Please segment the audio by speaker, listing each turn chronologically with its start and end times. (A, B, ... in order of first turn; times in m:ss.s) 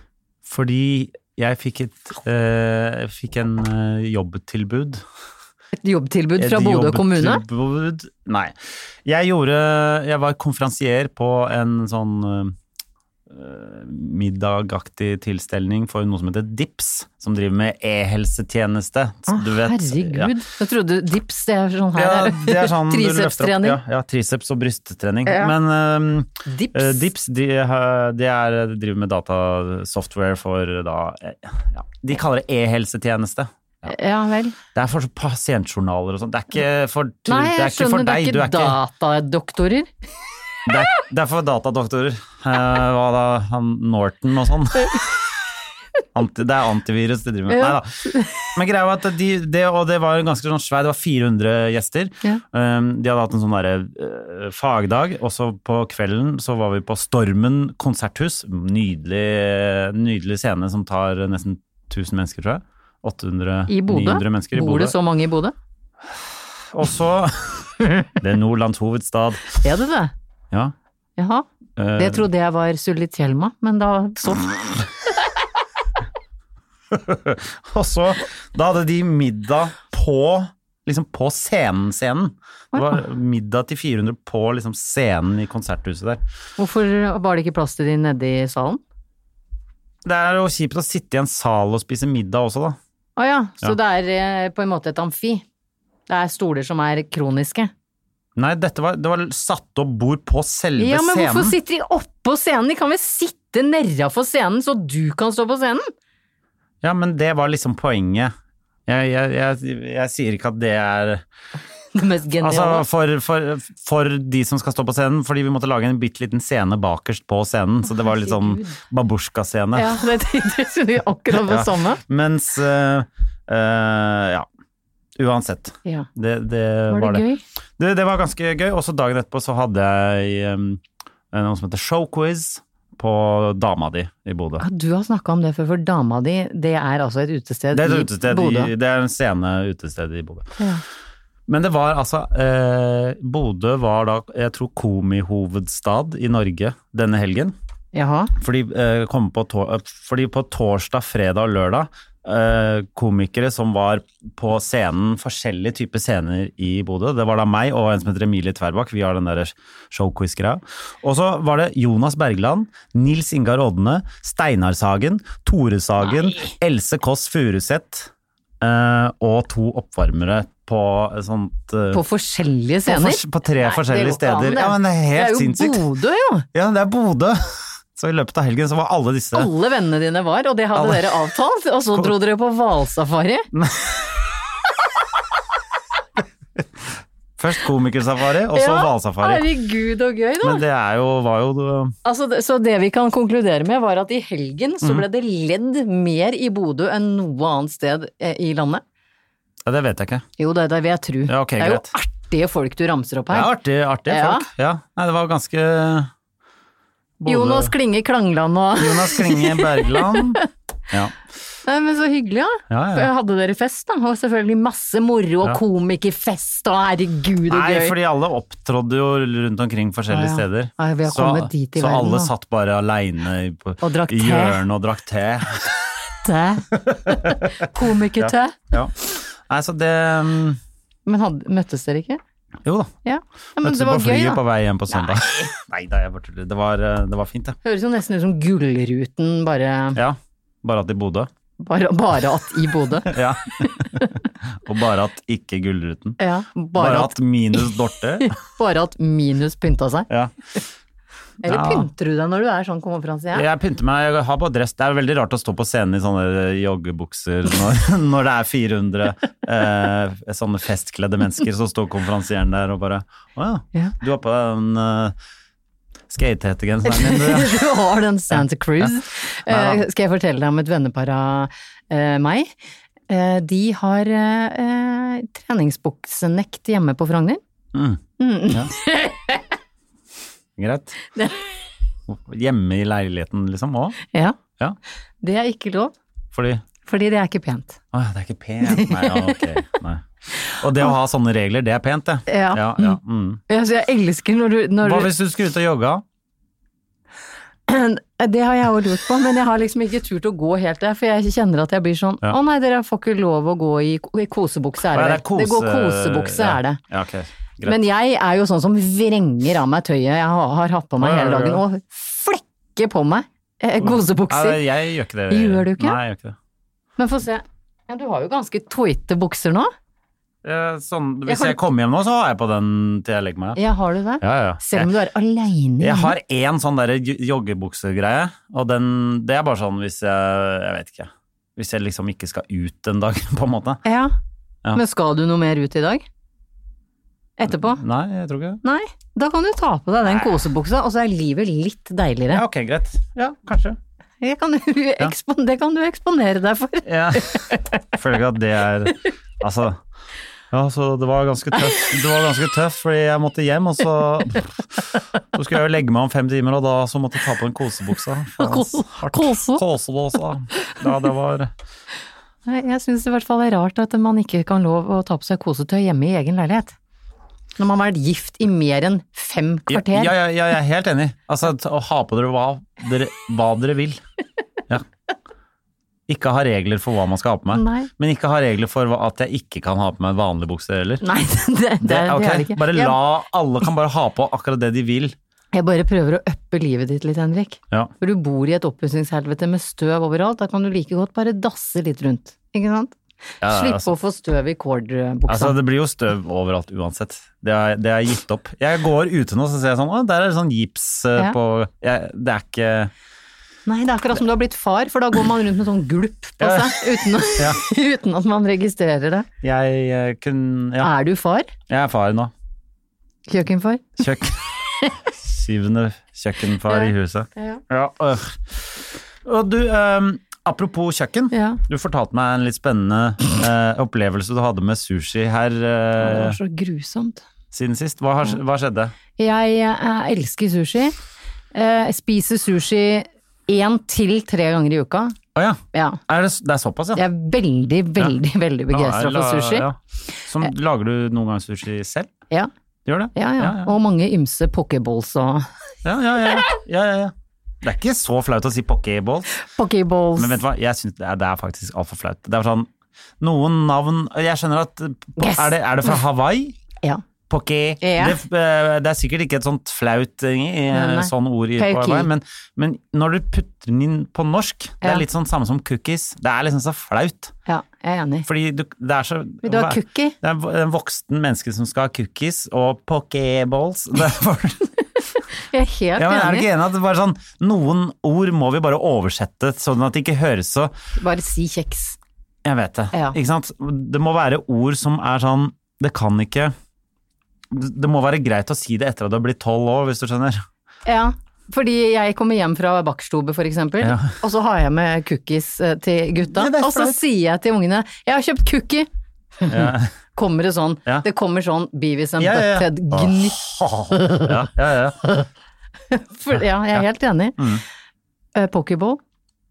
0:00.4-0:05.0 A
0:05.8-0:07.4 B
0:06.4-0:12.5 A
0:13.3-0:20.3 A
0:19.3-0:23.8 B
0:21.9-0:33.9 A
0:25.2-0:25.5 B
0:26.4-0:27.0 B
0:33.9-0:34.6 B
0:34.7-0:38.8 A
0:37.3-0:39.9 B
0:40.6-0:45.1 A
0:46.1-1:05.0 A
0:47.5-0:48.5 B
1:03.7-1:05.5 B
1:06.1-1:09.6 A
1:09.6-1:10.1 B
1:11.2-1:14.8 B
1:11.8-1:12.3 A
1:16.9-1:26.2 A
1:22.7-1:23.0 B
1:26.6-1:28.8 B
1:30.0-1:32.8 A
1:33.2-1:35.4 B
1:36.1-1:37.7 B
1:38.4-1:41.6 A
1:40.8-1:45.9 B
1:46.8-1:48.3 A
1:48.9-1:51.2 A
1:51.9-1:52.8 B
1:52.4-2:00.0 A
1:58.0-1:58.7 B
1:59.7-2:02.0 B
2:01.3-2:04.4 A
2:05.2-2:07.2 A
2:06.9-2:07.4 B
2:07.8-2:14.6 A
2:14.6-2:18.7 B
2:17.7-2:20.6 A
2:21.5-2:27.5 A
2:27.9-2:28.3 B
2:28.4-2:52.0 A
2:46.0-2:46.5 B
2:51.9-2:56.4 B
2:52.8-2:55.8 A
2:56.5-2:59.5 A
2:59.3-3:03.5 B
3:00.7-3:01.2 A
3:03.5-3:04.1 A
3:06.6-3:06.8 A
3:07.4-3:09.5 A
3:08.5-3:10.6 B
3:10.4-3:12.0 A
3:12.0-3:18.8 B
3:19.6-3:20.2 A
3:20.4-3:23.5 B
3:21.3-3:21.9 A
3:23.3-3:26.1 A
3:24.1-3:24.5 B
3:27.2-3:27.7 A
3:27.2-3:30.4 B
3:28.8-3:31.1 A
3:31.6-3:38.0 B
3:32.7-3:33.1 A
3:37.5-3:46.0 A
3:40.1-3:42.3 B
3:43.8-3:44.6 B
3:46.2-3:48.6 B
3:46.7-3:47.5 A
3:48.1-3:50.6 A
3:51.0-3:52.2 B
3:52.6-3:52.9 A
3:53.0-3:55.2 B
3:53.6-3:57.6 A
3:57.6-4:00.0 B
3:59.9-4:01.3 A
4:01.6-4:04.1 B
4:03.0-4:06.2 A
4:06.2-4:07.6 B
4:06.7-4:08.3 A
4:08.2-4:10.1 B
4:11.4-4:13.4 B
4:11.4-4:11.9 A
4:13.3-4:25.2 A
4:26.1-4:27.7 A
4:26.8-4:32.5 B
4:28.3-4:28.9 A
4:29.4-4:29.8 A
4:33.1-4:37.4 B
4:37.7-4:38.7 A
4:38.2-4:39.4 B
4:40.6-4:41.0 A
4:41.1-4:41.4 B
4:42.1-4:44.0 A
4:44.1-4:44.4 B
4:45.2-4:45.9 B
4:46.3-4:46.6 A
4:46.8-4:47.8 B
4:47.9-4:53.4 A
4:48.6-4:49.4 B
4:52.3-4:53.0 B
4:53.5-4:55.1 B
4:54.8-4:56.0 A
4:57.7-5:06.8 B
5:04.8-5:07.8 A
5:07.6-5:14.6 B
5:11.0-5:11.6 A
5:13.8-5:16.4 A
5:15.3-5:16.0 B
5:17.0-5:19.7 B
5:20.4-5:23.6 A
5:21.3-5:21.6 B
5:23.6-5:26.1 B
5:24.2-5:24.9 A
5:25.8-5:33.8 A
5:33.8-5:34.1 B
5:34.7-5:36.0 B
5:37.4-5:37.8 B
5:37.5-5:38.6 A
5:38.6-5:42.4 B
5:40.0-5:40.4 A
5:42.3-5:43.8 A
5:44.2-5:47.6 B
5:46.8-5:49.8 A
5:50.5-6:01.5 A
5:58.4-5:59.6 B
6:02.4-6:06.7 B
6:07.6-6:10.1 B
6:09.7-6:14.0 A
6:16.1-6:21.0 A
6:17.5-6:17.9 B
6:21.0-6:23.0 B
6:21.8-6:25.2 A
6:25.5-6:35.6 B
6:33.4-6:33.9 A
6:35.3-6:42.9 A
6:43.7-6:49.3 B
6:46.4-6:47.6 A
6:49.4-6:50.9 A
6:50.8-6:51.5 B
6:51.7-6:52.3 A
6:53.3-6:54.0 B
6:54.0-6:54.5 A
6:55.0-7:06.4 A
6:56.7-6:57.6 B
7:01.3-7:01.6 B
7:06.0-7:07.2 B
7:07.5-7:08.9 A
7:09.2-7:11.0 B
7:11.5-7:15.2 B
7:15.3-7:17.0 A
7:15.7-7:16.0 B
7:16.9-7:19.7 B
7:18.7-7:22.1 A
7:22.8-7:23.7 A
7:23.1-7:25.5 B
7:25.8-7:29.3 A
7:29.3-7:30.4 B
7:30.2-7:32.7 A
7:33.2-7:36.6 A
7:35.2-7:36.0 B
7:37.3-7:47.3 A
7:37.8-7:38.2 B
7:40.7-7:42.1 B
7:47.4-7:48.3 B
7:48.2-7:54.7 A
7:49.4-7:50.1 B
7:55.4-7:56.5 B
7:56.0-8:00.7 A
8:01.0-8:02.0 B
8:02.4-8:06.5 A
8:07.5-8:10.4 A
8:10.8-8:18.9 B
8:13.8-8:14.1 A
8:16.3-8:17.0 A
8:19.4-8:24.4 B
8:19.5-8:19.9 A
8:22.2-8:25.2 A
8:25.9-8:27.4 B
8:26.3-8:26.8 A
8:27.4-8:27.6 A
8:28.3-8:29.0 B